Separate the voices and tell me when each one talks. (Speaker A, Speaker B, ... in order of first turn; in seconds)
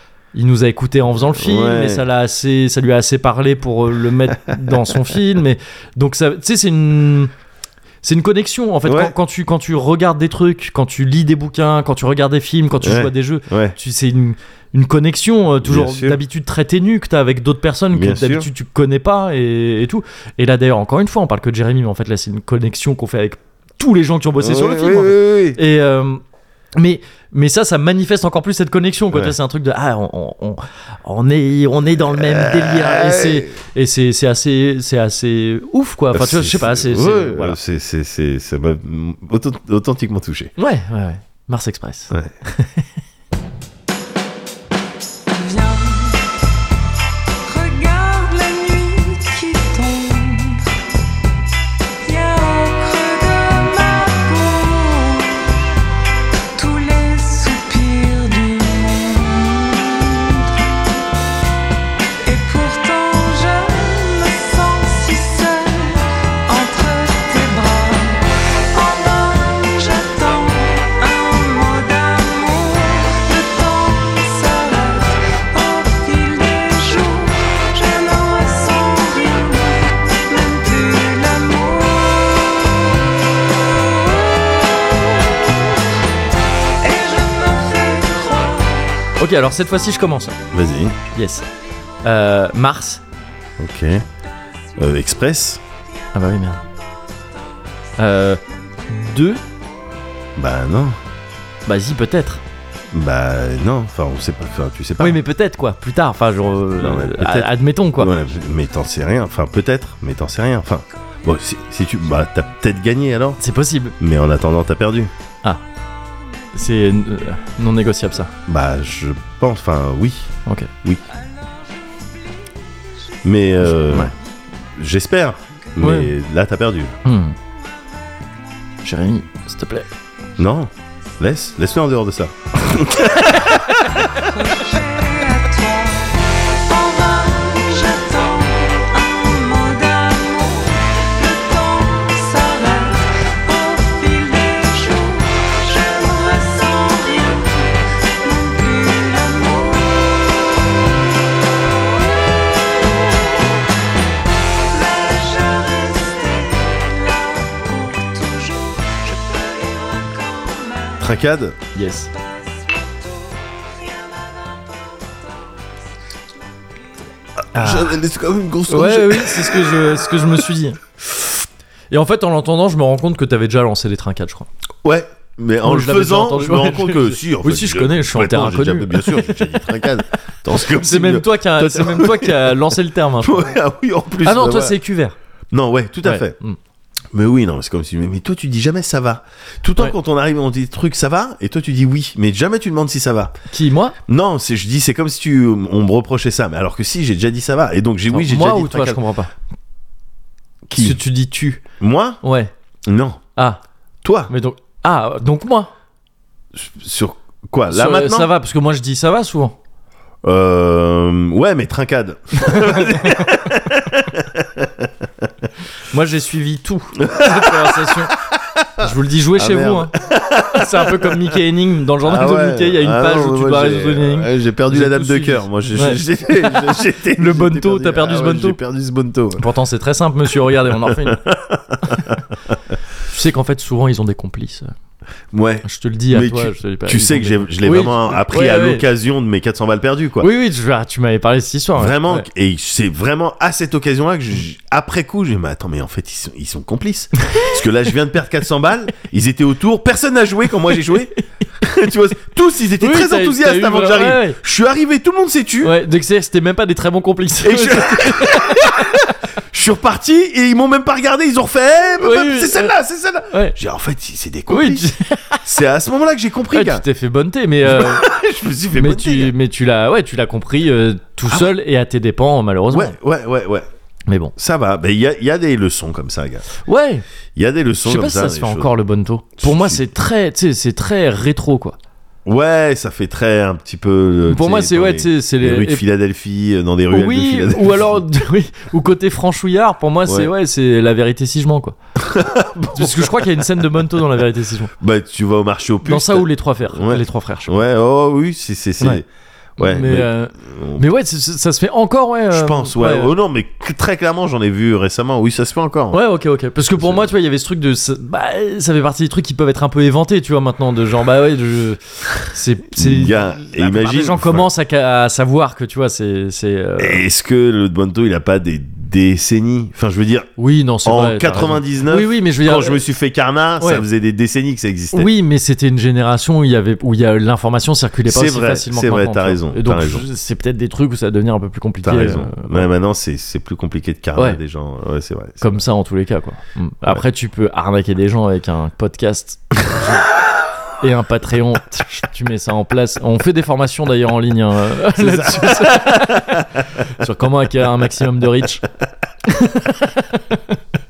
Speaker A: 0.3-7.3, 8.0-26.2, 26.8-37.6, 40.6-42.9, 89.2-90.4, 91.1-91.4, 92.0-93.0, 96.1-96.6, 98.0-99.4, 101.7-102.4, 105.0-108.1, 113.4-114.0, 116.5-118.3, 120.5-120.7, 123.7-124.1, 125.8-126.1, 127.0-127.3, 128.8-129.9, 133.3-133.7, 161.7-162.1, 167.5-168.0, 168.7-170.8, 171.9-174.5, 175.6-179.4, 180.6-183.5, 184.2-185.1, 186.0-186.6, 193.5-193.9, 198.1-199.3, 200.8-201.6, 202.2-202.5, 204.3-205.7, 207.7-209.6, 212.4-213.4, 215.9-218.1, 218.8-219.9, 220.5-228.6, 229.4-231.2, 231.8-232.2, 233.1-234.7, 235.6-238.8, 240.2-242.3, 247.3-247.5, 252.8-254.4, 255.6-259.1, 262.0-262.7, 263.3-263.6, 264.5-265.4, 266.5-268.1, 268.7-272.9, 274.1-274.3, 276.6-277.0, 277.8-281.8, 284.3-285.8, 286.9-291.8, 292.6-294.7, 295.8-297.6, 299.6-303.1, 305.9-317.0, 320.4-322.8, 323.6-323.8, 324.9-332.7, 335.4-340.1, 340.8-348.6, 349.2-350.6
Speaker B: 1.4-2.0, 8.8-9.1, 12.8-13.8, 15.6-16.2, 17.9-18.5, 24.4-25.6, 32.1-33.5, 36.1-40.5, 90.5-91.0, 93.6-94.0, 94.8-95.6, 100.3-101.0, 102.9-105.2, 106.8-113.4, 114.0-115.1, 118.5-121.0, 123.2-124.1, 124.8-126.9, 130.4-133.6, 161.0-161.6, 167.5-170.0, 174.8-182.6, 183.2-184.8, 185.5-186.3, 187.1-193.3, 194.1-199.0, 200.7-201.0, 201.8-202.2, 202.8-203.2, 204.0-204.3, 206.5-208.3, 210.2-215.2, 217.0-221.3, 222.0-229.4, 230.8-232.6, 235.3-240.3, 241.8-255.8, 257.4-264.9, 265.4-266.8, 267.6-269.3, 272.7-273.6, 274.4-276.4, 277.4-278.7, 279.4-279.9, 282.2-288.0, 292.0-293.2, 294.8-299.0, 299.6-300.8, 302.3-306.0, 312.7-314.5, 316.8-320.3, 320.8-325.1, 328.1-330.0, 331.8-335.6, 344.9-347.0
Speaker C: 45.3-46.1, 47.5-50.6, 52.0-55.2, 56.6-60.2, 62.2-68.2, 68.7-82.1, 86.8-88.8, 134.6-136.1, 136.7-147.6, 148.2-150.0, 154.7-160.9